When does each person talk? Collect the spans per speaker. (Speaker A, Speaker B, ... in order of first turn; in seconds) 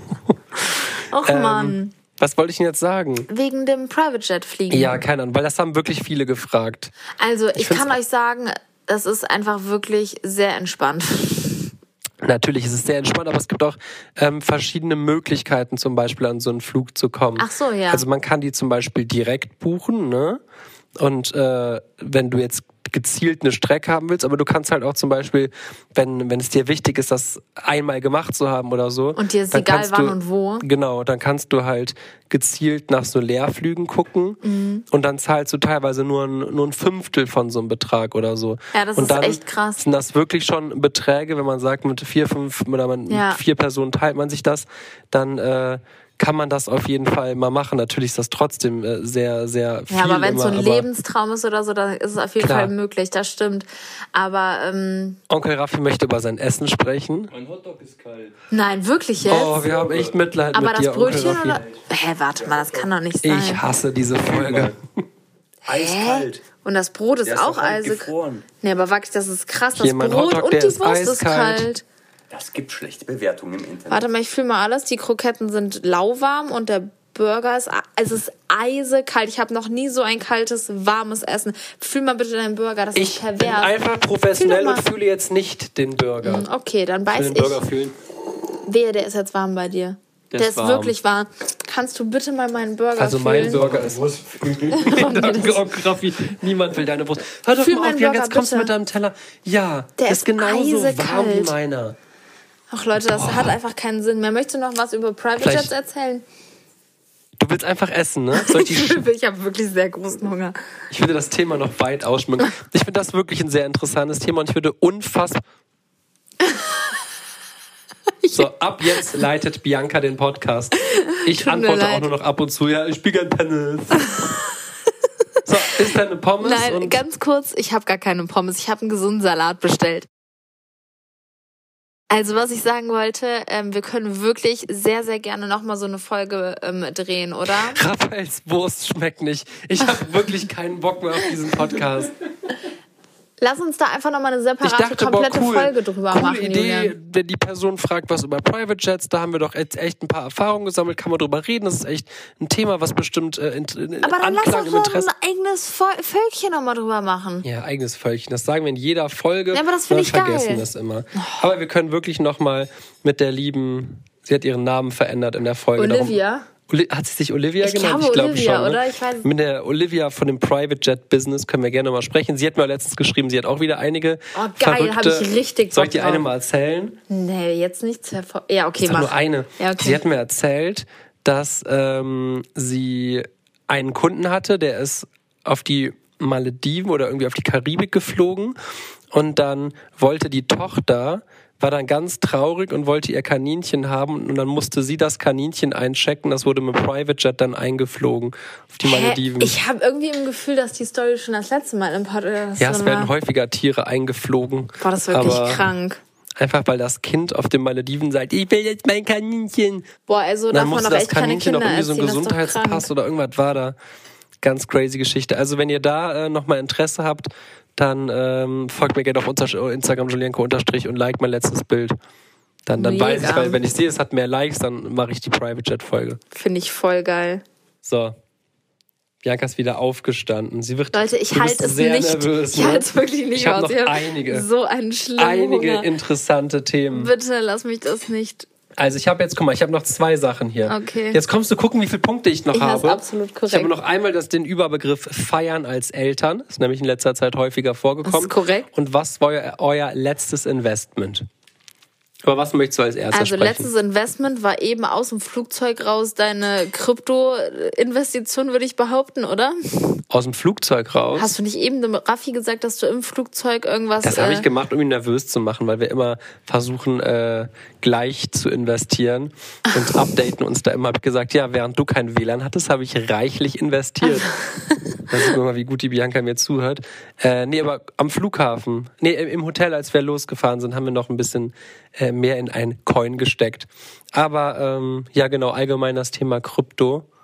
Speaker A: 1.1-1.9, 3.3-5.0, 7.2-11.7, 17.4-18.0, 29.1-30.6, 34.4-34.8, 38.7-39.8, 43.1-43.4, 49.9-55.2, 58.5-59.7, 60.5-63.6, 65.7-71.8, 73.9-83.7, 84.3-84.8, 86.2-87.6, 88.7-93.6, 94.7-95.7, 97.6-98.7, 100.0-101.5, 102.7-106.2, 108.3-110.6, 118.2-119.2, 120.9-122.1, 124.0-124.3, 126.4-130.1, 132.1-137.8, 143.4-146.9, 154.0-157.4, 159.5-160.7, 161.2-161.4, 165.8-166.5, 167.6-169.3, 174.3-176.3, 177.1-180.0, 198.8-203.1, 204.8-206.0, 210.1-212.9, 222.8-223.6, 226.3-227.4, 230.9-235.9, 236.9-238.5, 240.7-241.2, 242.5-243.7, 248.0-248.7, 253.1-260.0, 261.1-264.5, 274.0-275.3
Speaker B: 1.2-3.3, 4.7-6.9, 7.5-8.0, 12.2-20.4, 21.0-34.4, 34.9-50.9, 52.4-52.7, 55.3-57.3, 59.2-61.6, 63.2-64.8, 69.7-71.7, 83.0-86.5, 87.1-87.9, 90.3-90.9, 93.0-102.0, 103.0-103.5, 105.4-105.7, 107.4-109.0, 110.9-115.4, 118.3-124.3, 125.4-127.0, 137.4-142.1, 144.6-155.1, 157.4-177.0, 178.8-188.6, 189.1-199.6, 202.6-205.7, 206.4-209.9, 210.5-213.8, 214.4-221.9, 222.7-226.2, 227.8-228.2, 229.2-234.5, 235.2-237.1, 238.8-251.2, 252.2-253.7, 260.1-261.3, 264.0-274.3, 275.1-287.1
Speaker C: 57.3-58.4, 59.5-60.2, 62.4-62.8, 64.2-64.7, 65.7-66.4, 67.2-68.4, 72.3-74.1, 93.5-94.8